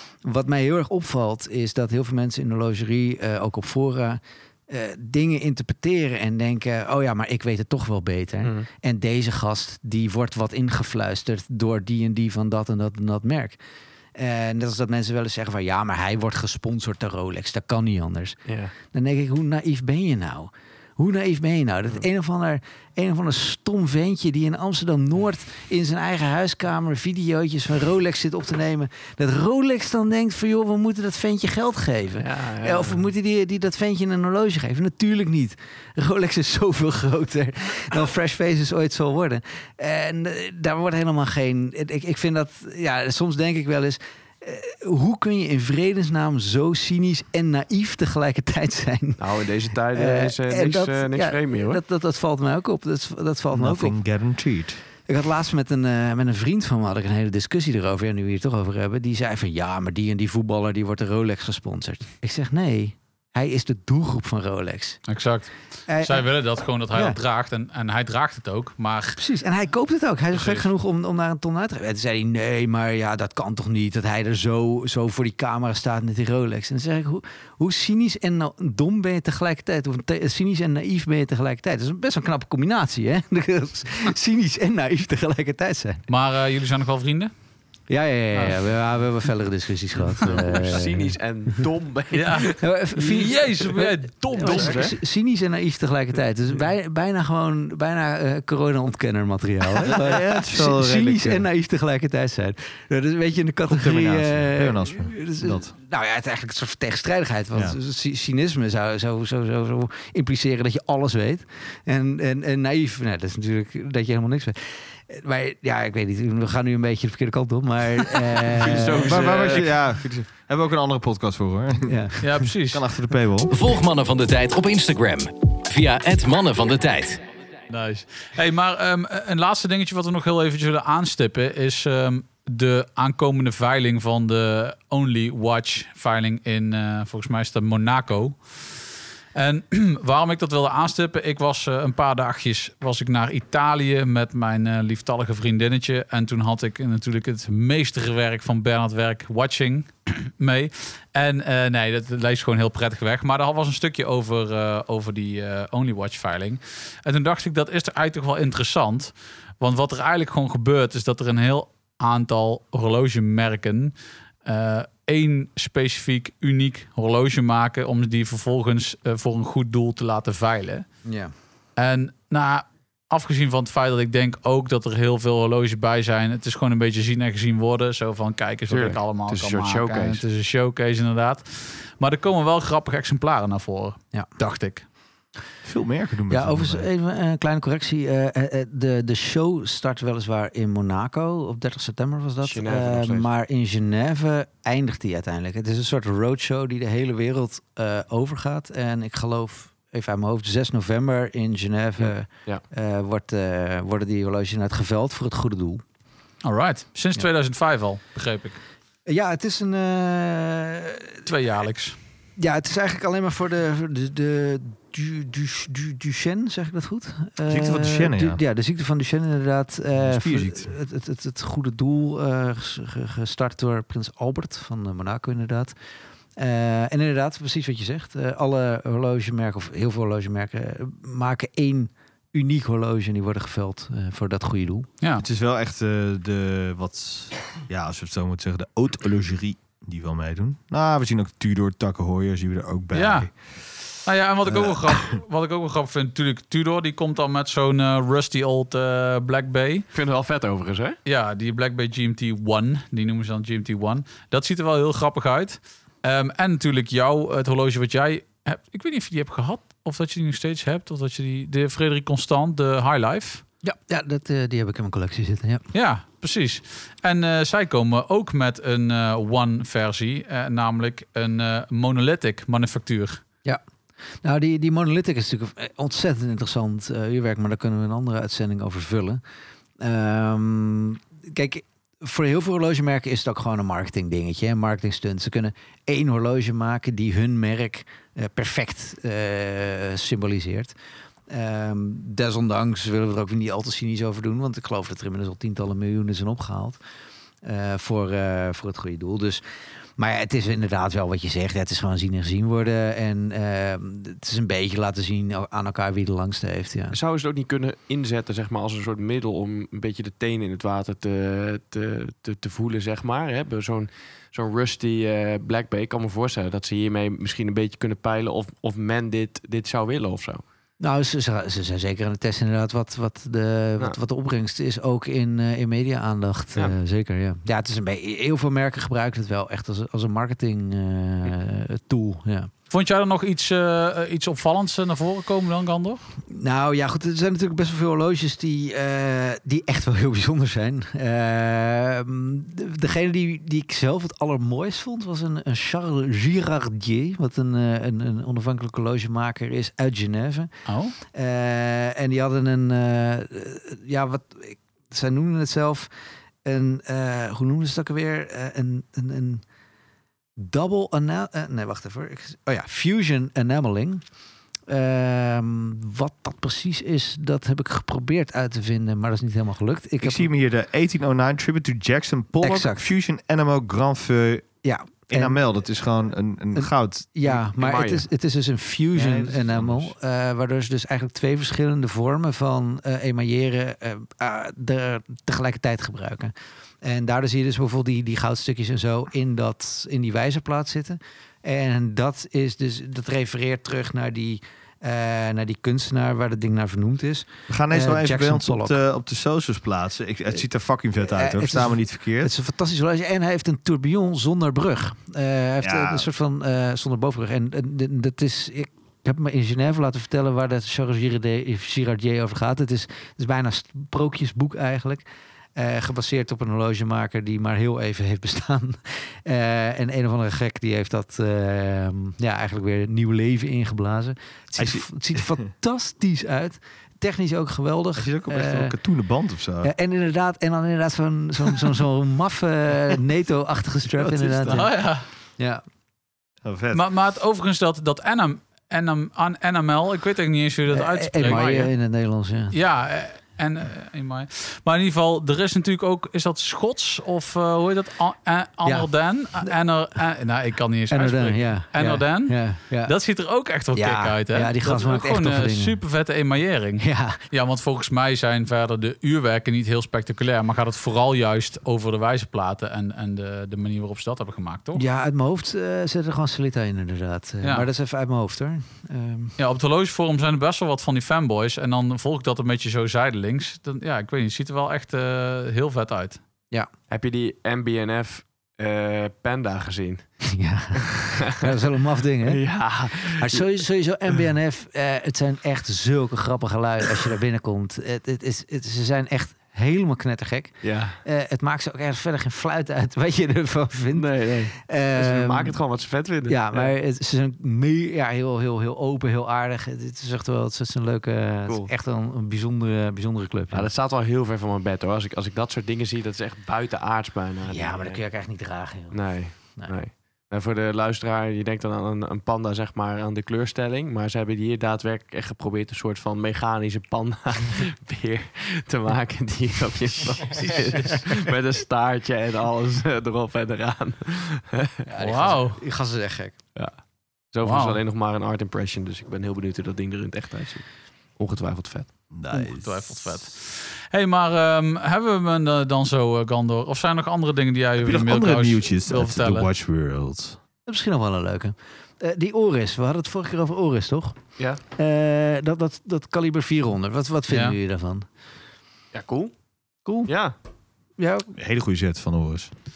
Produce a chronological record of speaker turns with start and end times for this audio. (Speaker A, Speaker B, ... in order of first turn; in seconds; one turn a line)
Speaker A: 0.2-13.6
Speaker B: 8.4-8.7
Speaker A: 14.1-49.2
Speaker B: 18.5-18.7
Speaker B: 32.2-33.0
Speaker B: 49.2-51.8
Speaker A: 49.9-54.0
Speaker C: 53.5-54.8
Speaker A: 55.0-65.0
Speaker D: 65.1-69.2
Speaker A: 65.9-66.3
Speaker A: 66.9-67.2
Speaker A: 69.2-86.0
Speaker D: 86.1-87.3
Speaker A: 87.9-91.6
Speaker B: 90.2-93.1
Speaker D: 92.1-94.9
Speaker A: 92.6-119.6
Speaker B: 94.4-95.0
Speaker C: 99.9-101.5
Speaker C: 103.7-105.7
Speaker B: 118.4-119.7
Speaker C: 118.8-123.5
Speaker A: 121.8-122.2
Speaker D: 122.2-122.8
Speaker E: 123.5-127.2
Speaker D: 127.7-138.8
Speaker D: 139.3-163.9
Speaker D: 164.4-170.8
Speaker A: 171.0-171.3
Speaker D: 171.8-184.8
Speaker B: 178.7-180.2
Speaker C: 185.6-186.9
Speaker A: 186.3-205.8
Speaker B: 192.4-193.3
Speaker B: 202.0-202.6
Speaker D: 206.4-208.6
Speaker A: 209.1-211.2
Speaker D: 211.2-211.9
Speaker A: 212.4-225.7
Speaker C: 217.5-218.4
Speaker C: 219.9-220.7
Speaker A: 226.4-234.9
Speaker C: 235.2-243.3
Speaker D: 242.9-243.3
Speaker D: 244.0-249.8
Speaker C: 244.4-245.2
Speaker B: 249.9-251.0
Speaker D: 251.1-263.4
Speaker A: 263.6-265.6
Speaker D: 265.7-273.2
Speaker A: 274.2-279.2
Speaker A: 279.8-290.7
Speaker A: 291.3-296.8
Speaker A: 297.4-299.4
Speaker A: 300.0-307.0
Speaker B: 306.9-320.4
Speaker A: 320.8-332.5
Speaker D: 332.7-336.0
Speaker A: 336.3-350.5
Speaker D: 350.7-350.9
Speaker A: 351.1-355.9
Speaker A: 356.4-359.4
Speaker A: 360.4-364.0
Speaker A: 364.7-370.3
Speaker C: 370.0-374.5
Speaker A: 372.4-372.9
Speaker A: 374.6-375.4
Speaker C: 375.1-377.1
Speaker A: 376.6-398.8
Speaker B: 377.3-378.1
Speaker C: 378.9-379.9
Speaker C: 397.5-402.3
Speaker A: 401.1-415.0
Speaker C: 405.6-406.1
Speaker A: 415.6-428.7
Speaker C: 424.6-425.2
Speaker C: 428.0-429.7
Speaker A: 429.6-434.7
Speaker C: 434.0-434.6
Speaker D: 434.5-435.0
Speaker A: 435.4-435.6
Speaker C: 436.4-436.8
Speaker D: 436.7-441.7
Speaker A: 440.7-442.5
Speaker D: 442.5-464.8
Speaker A: 450.9-452.9
Speaker A: 453.7-455.8
Speaker A: 456.8-457.2
Speaker A: 464.7-469.3
Speaker D: 469.4-476.2
Speaker B: 476.9-480.0
Speaker A: 480.2-495.6
Speaker B: 482.2-483.4
Speaker B: 490.6-491.0
Speaker B: 493.9-496.7
Speaker A: 496.3-503.7
Speaker B: 503.5-508.0
Speaker A: 507.4-509.7
Speaker B: 508.9-524.9
Speaker A: 524.9-526.3
Speaker D: 525.0-525.6
Speaker B: 527.3-530.6
Speaker D: 527.4-527.8
Speaker B: 531.2-531.9
Speaker C: 532.1-532.8
Speaker D: 532.3-539.5
Speaker C: 537.8-540.4
Speaker A: 540.6-544.2
Speaker A: 544.7-548.0
Speaker D: 547.3-547.6
Speaker B: 548.9-549.3
Speaker A: 549.8-550.1
Speaker B: 550.1-550.4
Speaker A: 551.0-551.3
Speaker C: 551.3-552.5